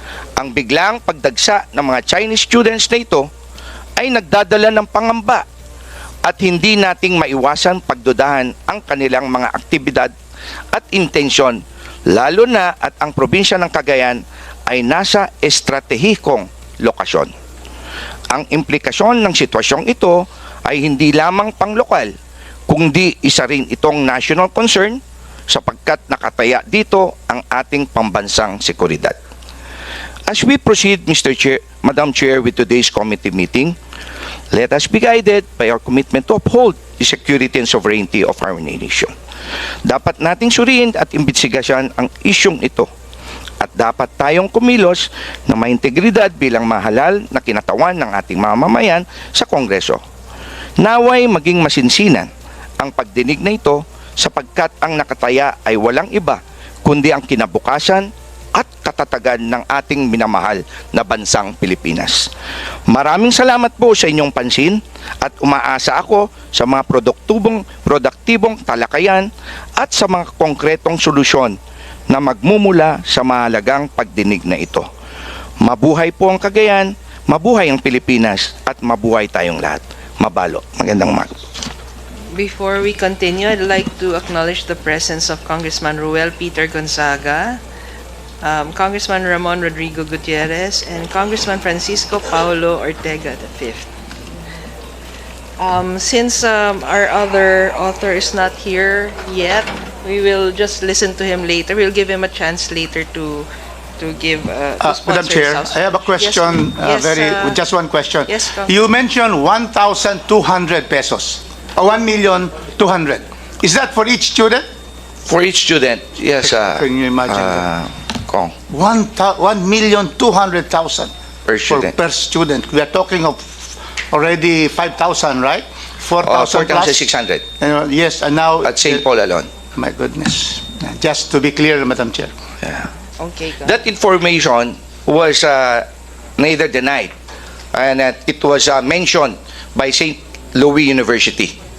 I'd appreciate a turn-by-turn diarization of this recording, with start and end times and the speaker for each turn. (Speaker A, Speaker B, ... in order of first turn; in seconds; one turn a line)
Speaker A: 0.4-3.3
Speaker A: 4.0-5.4
Speaker A: 6.2-10.1
Speaker A: 10.7-17.3
Speaker A: 18.3-22.1
Speaker A: 22.7-29.2
Speaker A: 30.3-33.8
Speaker A: 34.5-39.1
Speaker A: 39.8-42.9
Speaker A: 43.6-50.0
Speaker A: 50.8-52.3
Speaker A: 52.8-62.3
Speaker A: 62.9-71.5
Speaker A: 72.1-74.9
Speaker A: 75.6-81.3
Speaker B: 82.3-87.6
Speaker B: 88.4-93.9
Speaker B: 95.6-107.5
Speaker C: 104.8-114.7
Speaker B: 108.3-108.7
Speaker A: 115.2-118.5
Speaker C: 116.4-117.6
Speaker C: 118.7-121.1
Speaker A: 121.5-121.9
Speaker C: 121.7-127.0
Speaker A: 126.2-127.4
Speaker C: 127.6-129.0
Speaker A: 128.6-129.5
Speaker C: 129.8-132.3
Speaker A: 132.6-132.9
Speaker B: 133.2-133.8
Speaker A: 133.6-135.9
Speaker A: 136.4-137.1
Speaker A: 137.7-141.6